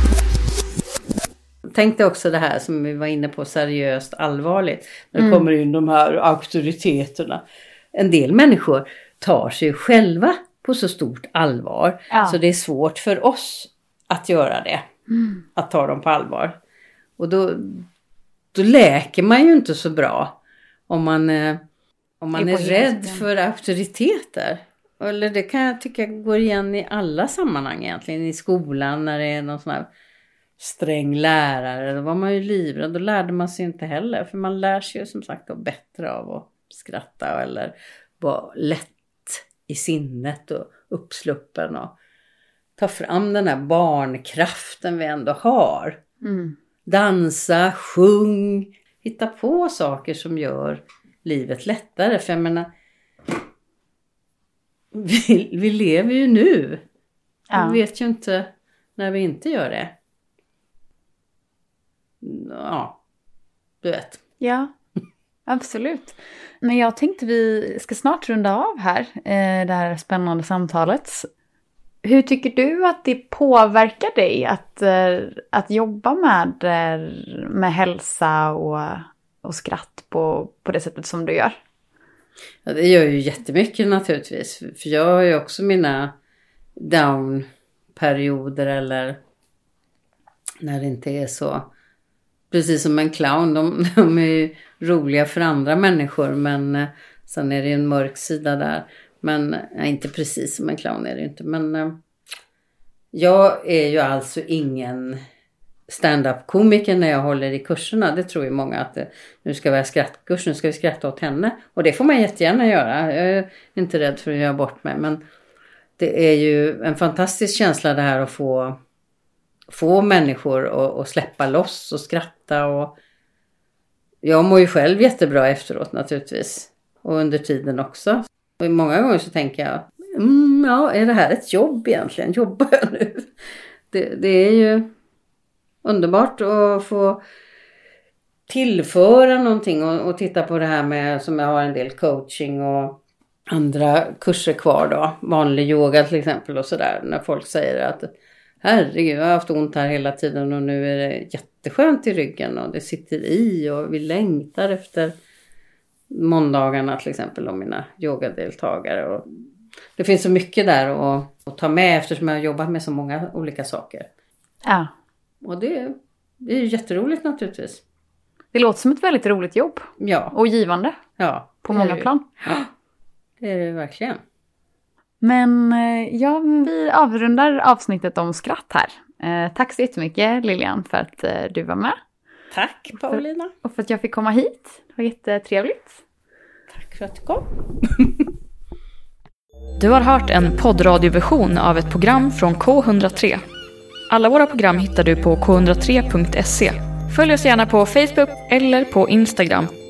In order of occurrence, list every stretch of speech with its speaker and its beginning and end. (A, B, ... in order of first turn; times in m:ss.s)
0:01.7-0:07.4 A
0:05.2-0:05.5 B
0:07.9-0:14.8 A
0:12.1-0:12.4 B
0:15.5-0:16.6 A
0:17.2-0:17.9 A
0:18.5-0:20.4 A
0:20.9-0:21.6 A
0:22.2-0:29.8 A
0:22.3-0:23.3 B
0:30.6-0:41.9 A
0:42.8-0:46.0 A
0:46.2-0:46.6 B
0:46.8-0:52.7 A
0:54.9-0:56.8 A
0:57.5-0:57.8 B
0:57.5-0:59.9 A
1:02.2-1:03.0 A
1:03.8-1:04.2 A
1:04.4-1:04.7 B
1:05.4-1:11.3 B
1:12.0-1:21.6 B
1:22.6-1:26.1 A
1:26.8-1:29.2 A
1:30.6-1:31.7 A
1:32.5-1:42.0 A
1:43.1-1:45.2 A
1:45.9-1:55.2 A
1:56.0-1:58.8 A
1:59.7-2:02.9 A
2:04.2-2:13.3 A
2:13.9-2:14.9 A
2:15.8-2:17.2 A
2:18.5-2:23.0 A
2:23.5-2:28.1 A
2:28.6-2:35.1 A
2:36.1-2:39.4 A
2:40.0-2:44.0 A
2:44.6-2:44.9 B
2:45.4-2:47.8 A
2:48.5-2:51.0 B
2:50.0-2:50.3 A
2:51.2-2:52.6 A
2:51.6-2:52.3 B
2:53.4-2:54.2 A
2:55.2-3:02.0 B
3:02.5-3:03.5 A
3:03.0-3:06.0 B
3:06.7-3:08.2 A
3:09.8-3:13.4 C
3:14.1-3:19.7 C